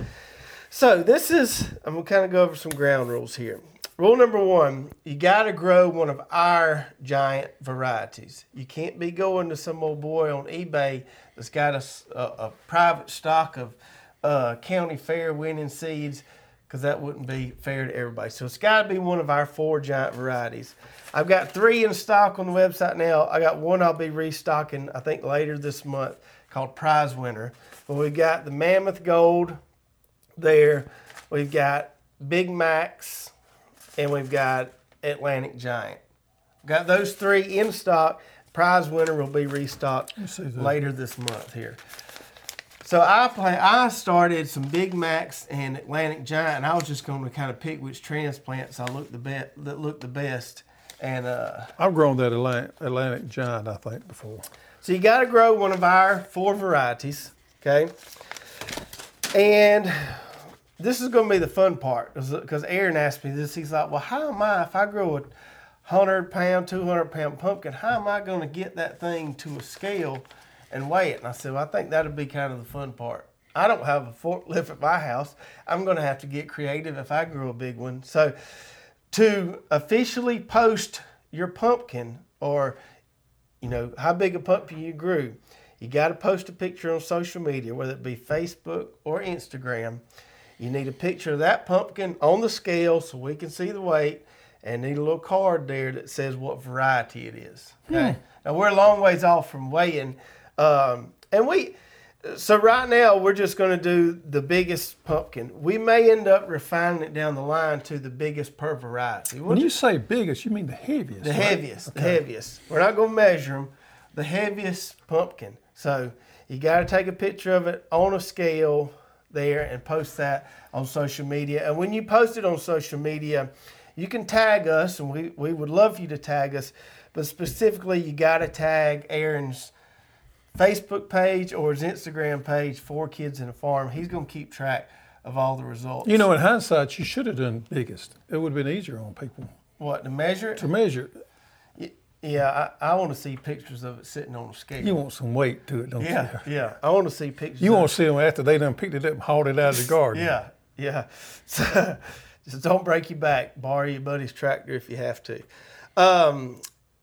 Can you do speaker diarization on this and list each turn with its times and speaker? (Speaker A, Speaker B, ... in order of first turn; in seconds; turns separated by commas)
Speaker A: 0.7-29.6, Speaker A: 30.4-33.3, Speaker A: 34.0-36.0, Speaker A: 36.6-41.8, Speaker B: 40.2-40.7, Speaker A: 42.8-51.7, Speaker B: 51.8-54.5, Speaker A: 54.8-57.9, Speaker A: 59.3-65.3, Speaker A: 65.8-78.3, Speaker A: 79.1-82.8, Speaker A: 83.6-90.0, Speaker A: 90.6-109.7, Speaker B: 97.9-98.2, Speaker B: 109.5-112.2, Speaker A: 111.2-129.7, Speaker A: 130.5-136.3, Speaker B: 136.0-139.5, Speaker A: 139.8-140.7, Speaker B: 140.6-141.1, Speaker A: 141.8-145.0, Speaker B: 144.8-146.4, Speaker A: 146.0-147.9, Speaker B: 147.6-150.3, Speaker A: 150.1-155.4, Speaker A: 156.0-156.6